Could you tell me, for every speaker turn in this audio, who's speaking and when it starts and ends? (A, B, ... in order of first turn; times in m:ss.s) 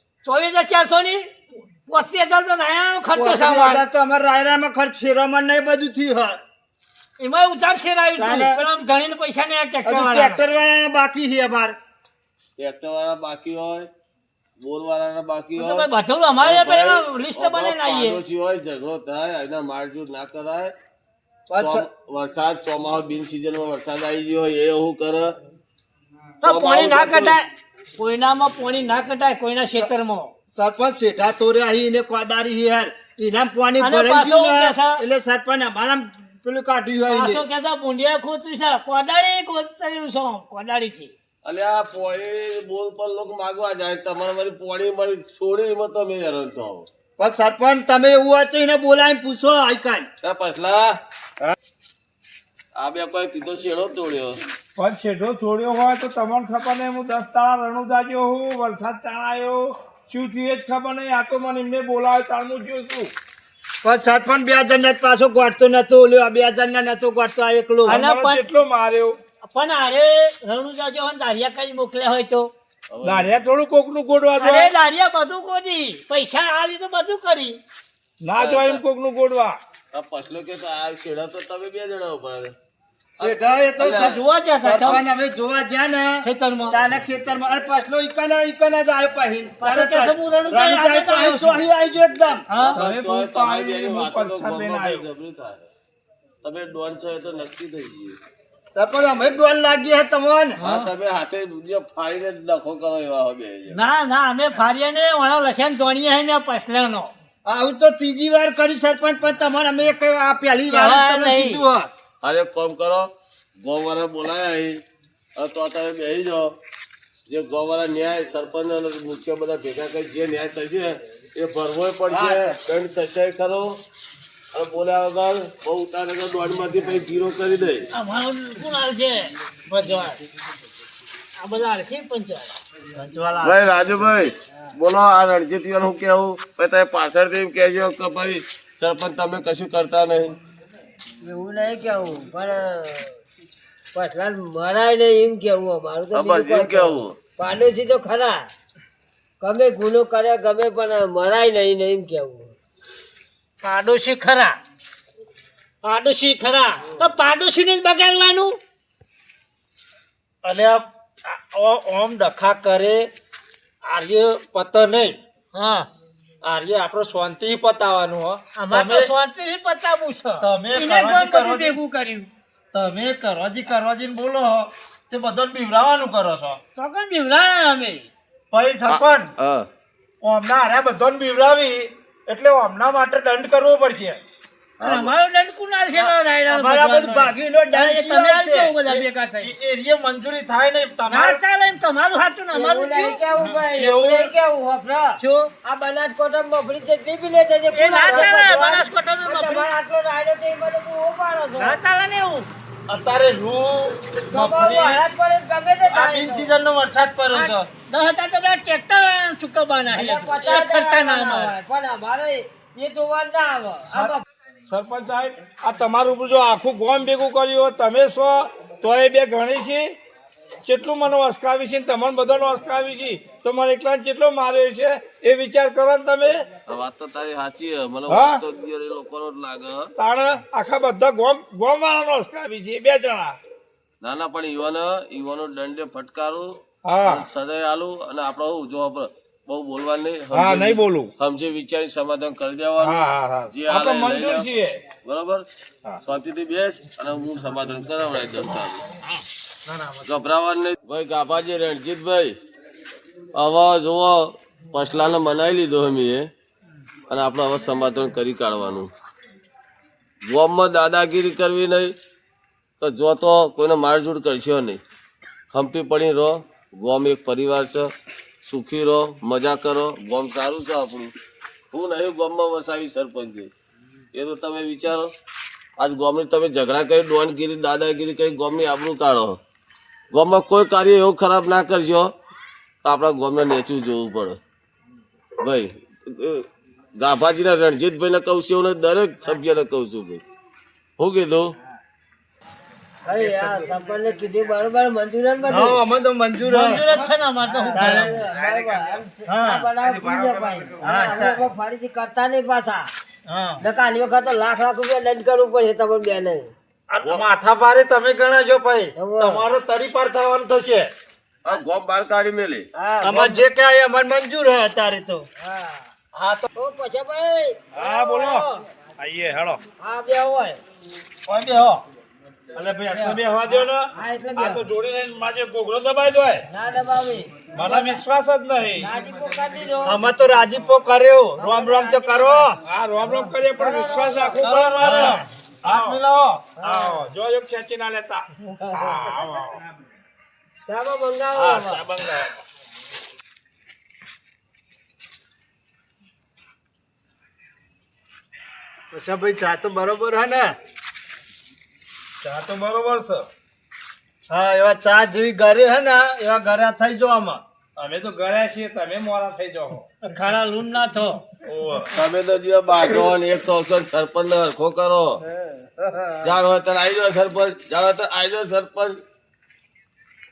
0:00.2-0:01.3 A
0:01.9-0:03.8 A
0:03.1-0:06.4 B
0:07.2-0:10.4 A
0:08.2-0:08.6 B
0:09.8-0:11.8 B
0:12.6-0:13.9 C
0:14.6-0:15.9 C
0:15.6-0:18.2 A
0:16.4-0:20.7 C
0:21.5-0:21.9 B
0:21.6-0:25.4 C
0:26.4-0:30.3 A
0:26.4-0:27.4 C
0:30.5-0:37.4 B
0:33.8-0:35.0 A
0:37.1-0:41.1 A
0:41.4-0:46.9 C
0:47.2-0:50.1 B
0:50.2-0:51.0 C
0:52.8-0:54.4 C
0:54.8-1:03.1 D
1:03.8-1:08.0 B
1:07.9-1:08.4 A
1:07.9-1:09.2 D
1:09.5-1:12.5 A
1:12.9-1:13.3 C
1:13.0-1:14.7 D
1:14.4-1:17.6 A
1:18.2-1:19.6 D
1:18.4-1:18.8 C
1:19.9-1:22.5 C
1:23.2-1:24.1 C
1:23.2-1:32.4 B
1:23.8-1:25.0 A
1:26.2-1:26.8 A
1:29.6-1:31.6 A
1:32.5-1:32.8 A
1:32.7-1:35.7 C
1:32.7-1:35.1 D
1:36.4-1:38.2 C
1:38.7-1:40.6 B
1:40.6-1:40.9 A
1:40.6-1:43.8 C
1:43.7-1:47.1 A
1:47.4-1:51.9 B
1:50.7-1:51.6 A
1:52.2-1:54.8 C
1:55.4-1:56.5 C
1:57.3-2:03.8 C
2:02.1-2:02.5 B
2:04.5-2:07.9 C
2:07.9-2:10.2 A
2:11.4-2:12.5 A
2:13.0-2:13.3 E
2:13.4-2:20.4 C
2:21.2-2:23.2 F
2:23.9-2:28.5 F
2:26.1-2:27.1 C
2:29.4-2:32.5 F
2:33.6-2:34.6 A
2:35.8-2:38.6 A
2:40.4-2:43.0 E
2:43.9-2:45.1 E
2:45.5-2:45.9 A
2:46.4-2:49.0 E
2:48.6-2:52.3 A
2:50.4-2:51.7 E
2:52.7-2:56.6 E
2:56.8-2:58.1 A
2:58.5-2:59.2 E
2:58.8-2:59.7 C
3:00.2-3:04.2 E
3:04.8-3:05.1 C
3:04.8-3:09.5 A
3:06.5-3:08.7 B
3:08.8-3:11.4 E
3:11.1-3:13.2 A
3:12.5-3:21.8 F
3:13.7-3:14.3 E
3:15.2-3:15.5 A
3:17.7-3:19.7 A
3:21.6-3:22.5 A
3:22.9-3:25.0 E
3:24.3-3:26.6 F
3:25.9-3:27.6 E
3:27.9-3:31.5 A
3:29.9-3:34.2 F
3:34.7-3:39.9 D
3:40.6-3:46.4 D
3:46.7-3:49.9 C
3:48.1-3:48.4 D
3:50.0-3:53.4 D
3:54.0-3:56.5 C
3:56.8-3:57.2 D
3:57.0-4:04.5 C
4:00.3-4:01.1 D
4:02.8-4:04.8 D
4:05.0-4:05.4 C
4:06.0-4:08.8 C
4:09.7-4:10.0 E
4:10.0-4:12.3 C
4:13.3-4:16.2 C
4:17.1-4:18.9 C
4:20.2-4:21.9 C
4:22.8-4:24.8 C
4:25.5-4:27.9 C
4:28.4-4:31.1 C
4:31.7-4:33.5 C
4:34.1-4:35.1 C
4:35.8-4:39.4 C
4:40.1-4:42.1 C
4:42.8-4:44.4 C
4:45.4-4:46.4 C
4:47.0-4:50.2 C
4:51.0-4:51.5 C
4:53.0-4:55.8 F
4:55.4-4:56.8 B
4:56.4-4:58.2 A
4:57.4-5:02.9 F
4:57.7-4:58.2 B
5:00.2-5:00.7 D
5:00.8-5:01.4 B
5:03.3-5:03.5 E
5:03.6-5:06.5 F
5:06.9-5:10.9 E
5:08.9-5:09.5 F
5:11.4-5:12.7 C
5:12.7-5:13.4 F
5:13.0-5:15.3 B
5:15.4-5:15.9 F
5:16.2-5:16.4 E
5:16.5-5:18.6 F
5:17.7-5:19.6 D
5:19.8-5:20.6 F
5:21.3-5:21.8 E
5:22.5-5:26.5 D
5:22.9-5:24.7 F
5:26.5-5:27.9 F
5:27.5-5:29.0 D
5:28.8-5:30.1 F
5:29.8-5:32.6 B
5:31.4-5:34.4 F
5:32.6-5:36.0 D
5:34.6-5:36.5 E
5:36.6-5:39.6 D
5:36.6-5:37.0 F
5:38.8-5:39.1 F
5:40.7-5:41.8 F
5:41.3-5:42.4 D
5:48.9-5:50.5 B
5:52.2-5:53.3 D
5:54.3-5:57.4 B
5:57.8-5:59.9 D
6:00.0-6:01.2 A
6:01.4-6:01.9 D
6:01.9-6:05.2 C
6:05.3-6:06.3 F
6:06.2-6:09.0 C